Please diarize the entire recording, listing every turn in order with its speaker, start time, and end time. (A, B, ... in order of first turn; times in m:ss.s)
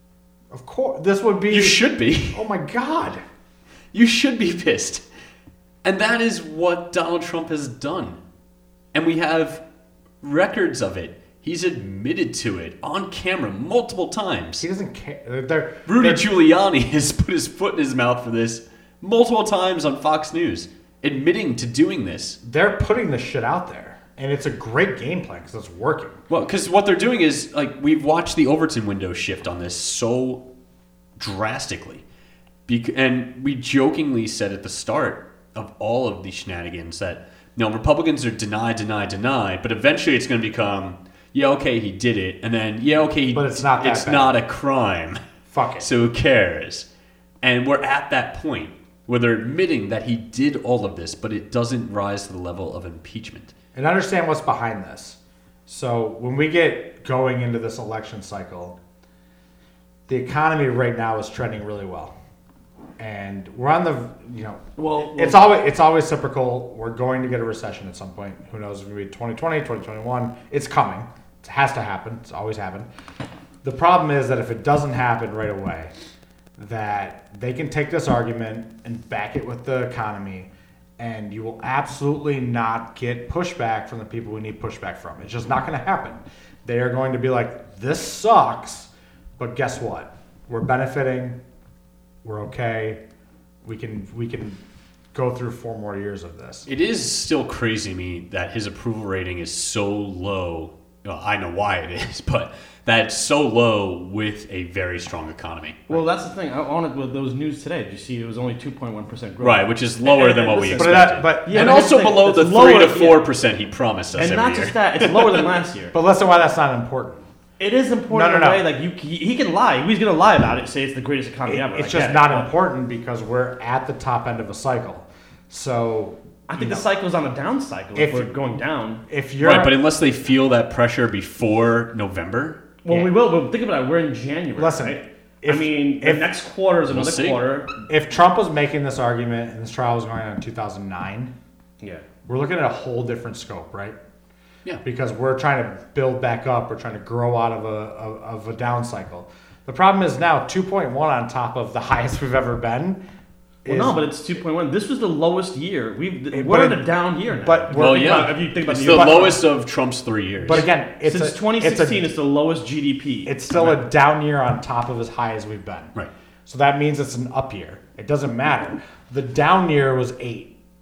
0:00.5-0:03.2 A
0:01.5-0:02.4 B
0:03.9-0:05.0 B
0:05.8-0:08.2 B
0:08.9-0:09.6 B
0:10.2-0:14.7 B
0:14.6-0:16.3 A
0:15.9-0:22.4 B
0:22.4-0:26.2 A
0:26.3-0:30.4 B
0:31.2-0:32.0 B
0:32.7-0:45.2 B
0:43.3-0:44.4 A
0:45.5-0:45.9 A
0:45.8-0:46.9 B
0:47.4-0:53.5 B
0:53.8-0:58.8 A
1:00.1-1:02.1 A
1:03.0-1:12.9 A
1:04.8-1:05.6 C
1:13.6-1:15.9 A
1:16.6-1:31.4 A
1:32.2-1:33.0 A
1:33.6-1:34.6 A
1:35.1-1:36.7 A
1:36.7-1:46.0 B
1:45.9-1:53.2 C
1:49.4-1:55.5 B
1:50.8-1:51.9 A
1:54.2-1:55.9 C
1:55.9-1:57.2 A
1:57.6-2:02.5 C
1:58.1-1:58.7 A
2:01.5-2:06.8 A
2:06.5-2:09.0 C
2:08.0-2:08.3 A
2:09.1-2:09.8 A
2:09.4-2:12.6 B
2:12.8-2:17.9 C
2:14.6-2:16.3 A
2:16.9-2:17.4 B
2:17.9-2:21.3 A
2:22.3-2:24.0 A
2:24.8-2:33.0 A
2:33.6-2:34.0 A
2:33.7-2:39.4 C
2:36.3-2:36.8 A
2:37.3-2:39.4 A
2:37.7-2:40.6 B
2:40.5-2:42.0 A
2:40.5-2:43.8 C
2:43.3-2:45.9 A
2:46.5-2:50.5 A